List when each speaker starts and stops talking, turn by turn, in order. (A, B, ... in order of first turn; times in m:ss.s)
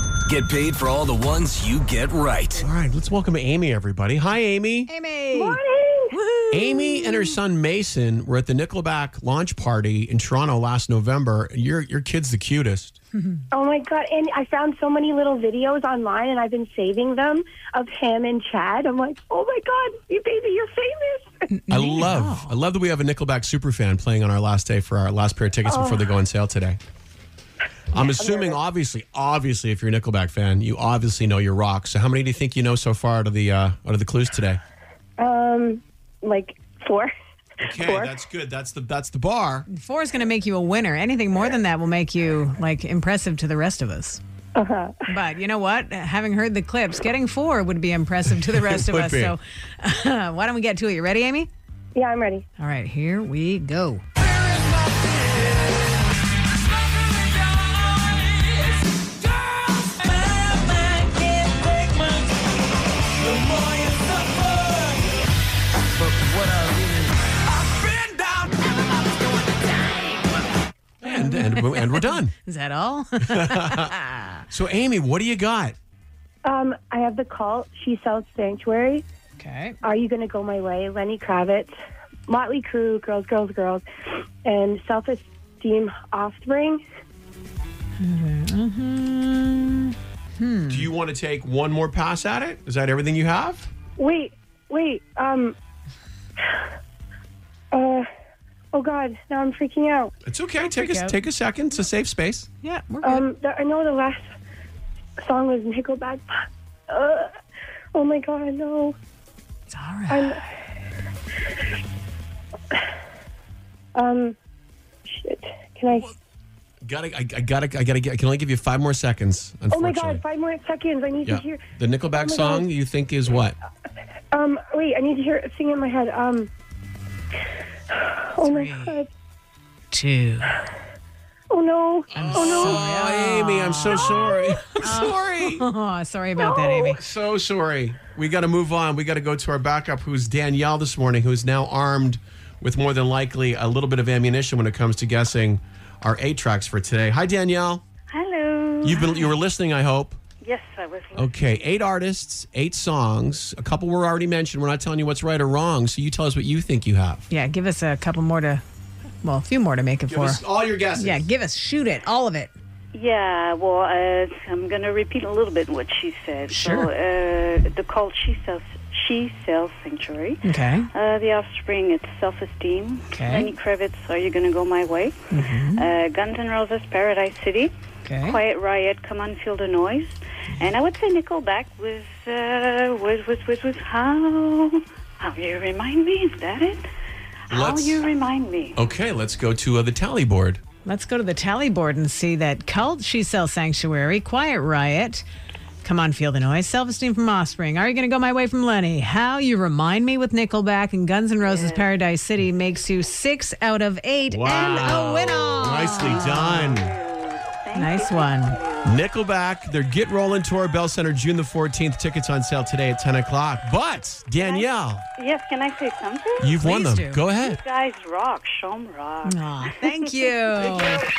0:00.2-0:02.6 A
0:02.6-0:04.9 B
0:04.9-0:05.6 C
0:05.3-0:06.2 D
0:06.1-0:07.4 C
0:06.5-0:13.0 B
0:13.5-0:21.5 D
0:21.5-0:22.6 C
0:21.7-0:26.8 B
0:25.6-0:26.0 D
0:27.9-0:34.6 B
0:28.0-0:28.6 D
0:35.2-0:38.1 D
0:37.6-0:39.7 B
0:39.7-0:44.2 C
0:44.6-0:45.0 D
0:45.1-0:51.5 C
0:48.3-0:49.4 B
0:51.9-0:52.4 D
0:52.6-0:54.0 C
0:54.2-0:55.7 A
0:56.6-1:02.3 A
1:03.1-1:05.1 A
1:06.0-1:09.5 A
1:11.0-1:12.3 B
1:11.0-1:14.4 C
1:13.3-1:13.9 B
1:14.5-1:15.7 B
1:16.4-1:19.0 D
1:19.4-1:19.8 C
1:19.8-1:21.7 D
1:22.3-1:23.8 D
1:24.4-1:26.8 D
1:28.0-1:30.9 C
1:30.7-1:33.7 B
1:34.0-1:35.5 D
1:37.7-1:38.1 D
1:38.7-1:40.1 D
1:40.2-1:42.5 B
1:40.7-1:41.2 C
1:42.6-1:43.2 C
1:43.0-1:44.2 D
1:45.2-1:47.3 D
1:47.9-1:49.0 D
1:49.7-1:50.4 C
1:50.1-1:50.4 D
1:53.9-1:54.4 D
1:55.1-1:56.1 D
1:56.8-2:00.2 B
1:59.7-2:01.6 D
2:01.2-2:03.6 B
2:02.2-2:02.7 D
2:04.3-2:06.5 D
2:07.9-2:09.1 D
2:08.4-2:09.0 C
2:09.9-2:10.6 C
2:11.5-2:12.8 D
2:12.1-2:15.6 B
2:12.1-2:17.0 C
2:13.9-2:14.6 D
2:16.4-2:17.0 D
2:17.0-2:27.8 B
2:28.1-2:29.2 E
2:28.8-2:30.2 B
2:30.4-2:31.5 E
2:31.2-2:37.3 B
2:37.3-2:38.6 C
2:39.2-2:40.4 C
2:40.1-2:41.3 B
2:40.9-2:42.5 C
2:42.9-3:06.8 E
2:46.5-2:46.9 C
2:50.4-2:50.9 C
2:53.1-2:53.5 C
2:55.3-2:55.9 C
2:58.0-2:58.4 C
3:07.5-3:08.0 B
3:07.5-3:08.8 E
3:08.7-3:10.6 B
3:10.8-3:15.2 C
3:15.8-3:26.7 C
3:21.4-3:21.9 E
3:24.3-3:26.9 B
3:25.9-3:29.0 E
3:27.7-3:28.6 C
3:28.8-3:35.0 B
3:34.4-3:36.6 E
3:36.4-3:37.6 B
3:36.6-3:37.2 C
3:37.2-3:39.6 E
3:39.2-3:41.0 C